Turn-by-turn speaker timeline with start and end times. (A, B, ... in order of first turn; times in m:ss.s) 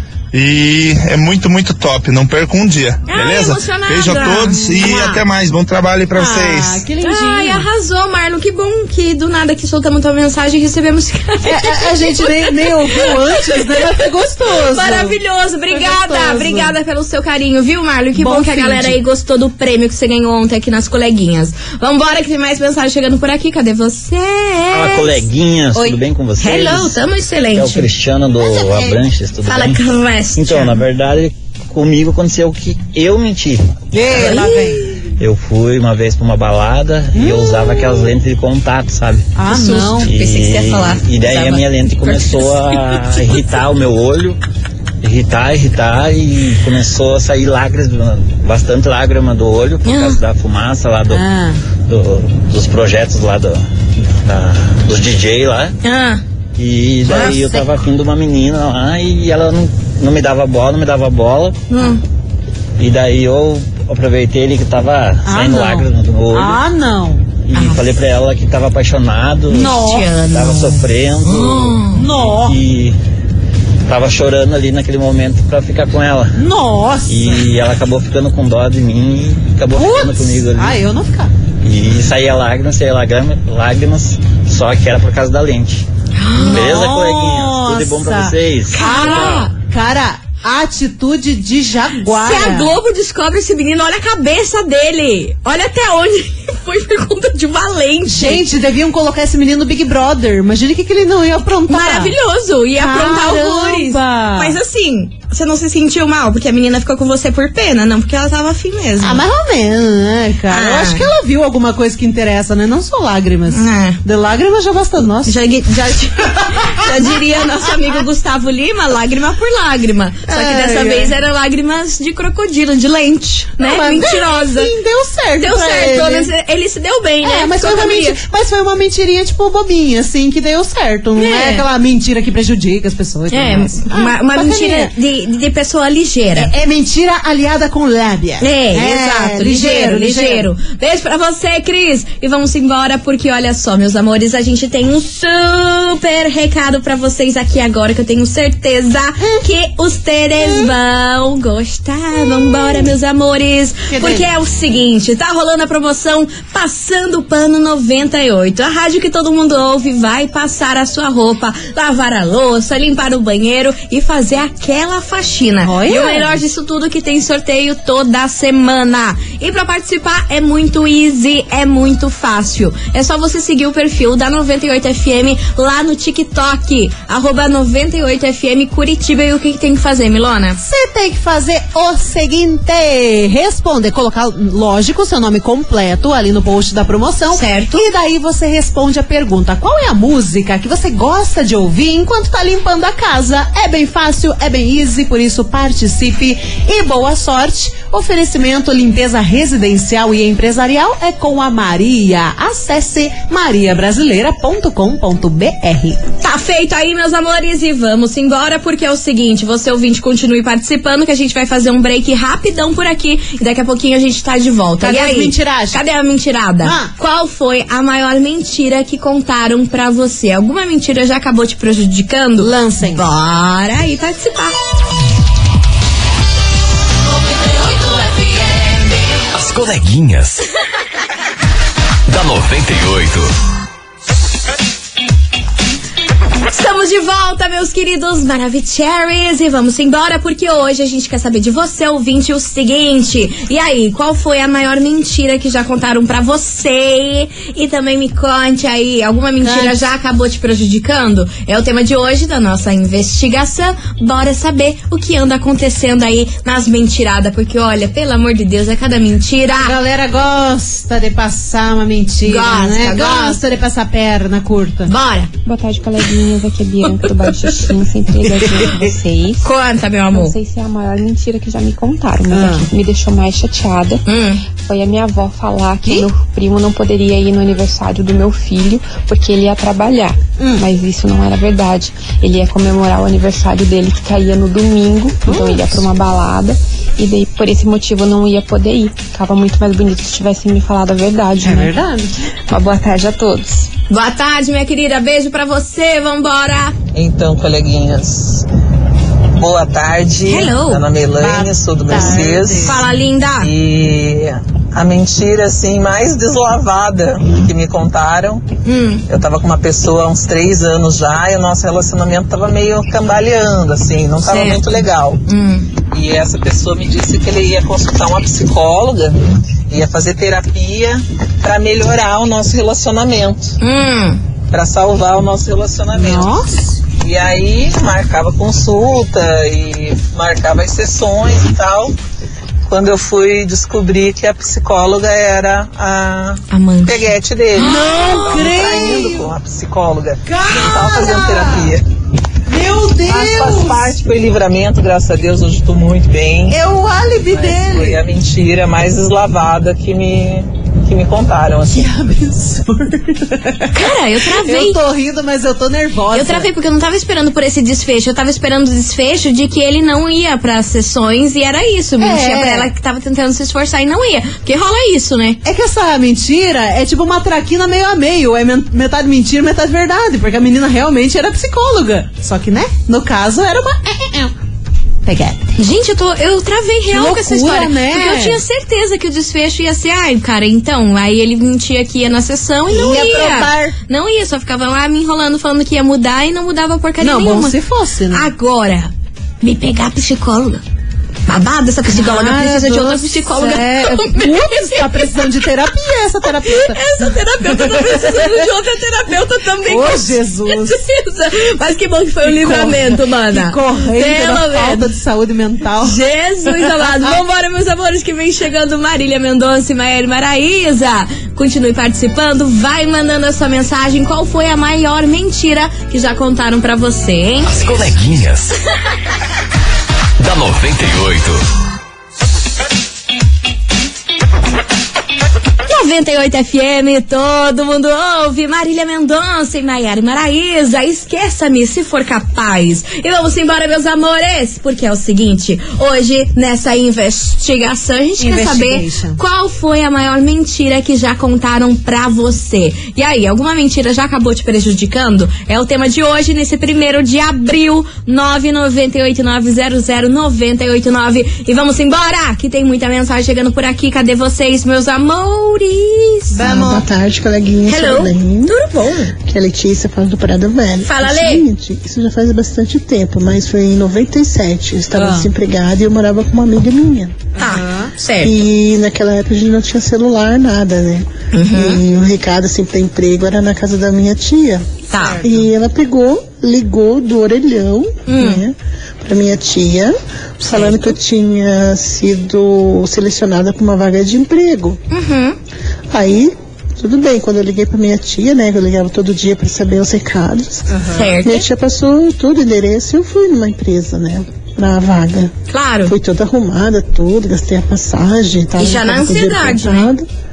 0:00.3-0:06.8 A
0:03.1-0:04.9 B
0:04.1-0:05.2 C
0:06.2-0:07.7 C
0:07.0-0:14.0 B
0:11.5-0:15.1 C
0:14.5-0:25.2 B
0:15.7-0:16.8 C
0:18.2-0:19.0 C
0:24.7-0:27.0 D
0:25.7-0:26.0 C
0:26.4-0:27.9 B
0:27.5-0:29.8 D
0:28.4-0:29.1 C
0:29.4-0:30.8 B
0:30.4-0:34.4 D
0:33.9-0:34.8 C
0:34.1-0:35.0 B
0:35.2-0:39.3 D
0:37.1-0:38.1 C
0:39.4-0:40.1 C
0:39.5-0:43.5 B
0:40.0-0:44.4 D
0:45.0-0:51.2 D
0:49.8-0:50.2 B
0:51.1-0:51.6 C
0:51.9-0:55.7 D
0:55.8-0:56.2 B
0:56.6-1:01.7 D
0:57.0-0:57.7 C
1:01.7-1:02.0 B
1:02.8-1:06.6 D
1:05.2-1:07.2 C
1:07.4-1:11.8 D
1:07.6-1:07.9 B
1:09.5-1:10.2 C
1:09.5-1:12.0 B
1:11.9-1:12.6 C
1:12.4-1:13.0 D
1:13.9-1:16.4 D
1:16.4-1:17.5 C
1:17.1-1:20.8 D
1:19.7-1:21.3 C
1:21.6-1:25.8 D
1:26.2-1:26.7 B
1:26.4-1:32.7 C
1:26.4-1:29.5 D
1:28.7-1:29.5 B
1:32.1-1:38.4 B
1:38.1-1:42.1 C
1:41.7-1:49.2 B
1:42.8-1:44.6 C
1:49.0-1:55.4 C
1:50.5-1:51.0 B
1:53.5-1:54.0 B
1:55.3-2:04.7 B
1:56.4-1:56.8 C
2:00.3-2:01.1 C
2:03.6-2:06.3 C
2:05.4-2:08.2 B
2:07.2-2:14.9 C
2:11.2-2:11.6 B
2:13.3-2:16.5 B
2:16.4-2:20.5 C
2:18.4-3:00.6 B
2:30.4-2:30.7 C
2:32.3-2:32.8 C
2:33.9-2:34.3 C
2:45.6-2:46.4 C
3:00.6-3:26.0 C
3:07.3-3:07.8 B
3:26.2-3:44.6 B
3:34.8-3:35.8 C
3:36.6-3:36.9 C
3:42.4-3:43.0 C
3:49.3-3:50.4 E
3:52.1-3:53.3 E
3:56.5-4:19.7 B
4:09.4-4:09.8 C
4:19.6-4:24.9 C
4:22.2-4:23.4 B
4:24.9-4:25.3 B
4:25.4-4:29.5 F
4:28.1-4:28.9 C
4:29.4-4:30.4 B
4:30.1-4:34.0 F
4:32.3-4:32.7 C
4:34.1-4:34.4 B
4:34.6-4:51.8 F
4:40.4-4:40.6 C
4:45.3-4:45.8 C
4:51.4-4:52.1 C
4:52.5-4:53.7 F
4:53.9-4:56.8 B
4:56.9-4:58.5 G
4:59.4-5:02.8 G
5:00.3-5:00.8 B
5:01.2-5:02.8 C
5:02.6-5:03.5 B
5:03.4-5:08.4 G
5:08.6-5:09.0 B
5:09.1-5:15.2 G
5:14.2-5:14.7 B
5:15.3-5:15.7 B
5:15.9-5:23.6 G
5:23.6-5:24.2 B
5:24.5-5:26.3 G
5:25.9-5:26.8 C
5:26.9-5:32.0 G
5:32.7-5:41.8 G
5:36.5-5:38.0 B
5:37.6-5:39.3 C
5:40.2-5:41.7 C
5:42.5-5:43.9 C
5:43.0-5:46.6 G
5:46.5-5:48.0 C
5:47.3-5:51.9 G
5:51.7-5:53.8 C
5:53.7-5:54.8 B
5:54.4-5:56.5 C
5:56.1-6:05.4 B
6:02.0-6:02.7 C
6:05.4-6:14.3 C
6:15.0-6:15.5 C
6:15.6-6:27.6 B
6:16.9-6:18.4 C
6:22.7-6:23.8 C
6:27.0-6:28.3 C
6:28.1-6:30.6 B
6:31.3-6:35.3 B
6:31.9-6:36.8 C
6:36.4-6:44.9 B
6:37.4-6:38.4 C
6:39.6-6:40.8 C
6:42.2-6:46.0 C
6:45.8-6:57.5 B
6:46.7-6:47.2 C
6:57.5-6:58.6 E
7:00.2-7:01.4 E
7:05.7-7:36.4 B
7:18.2-7:19.2 C
7:36.3-7:36.8 C
7:36.4-7:38.6 H
7:37.7-7:39.2 B
7:39.2-7:47.3 H
7:40.8-7:41.4 B
7:45.0-7:45.3 C
7:47.4-7:47.9 C
7:47.4-7:48.4 B
7:48.2-8:04.8 H
7:51.3-7:51.8 B
7:54.9-7:55.2 B
7:54.9-7:55.4 C
7:58.1-7:58.4 B
8:00.5-8:00.8 B
8:04.9-8:05.4 B
8:05.9-8:15.3 H
8:10.7-8:11.1 C
8:10.9-8:11.4 B
8:15.5-8:16.0 B
8:15.9-8:20.1 H
8:18.6-8:19.9 B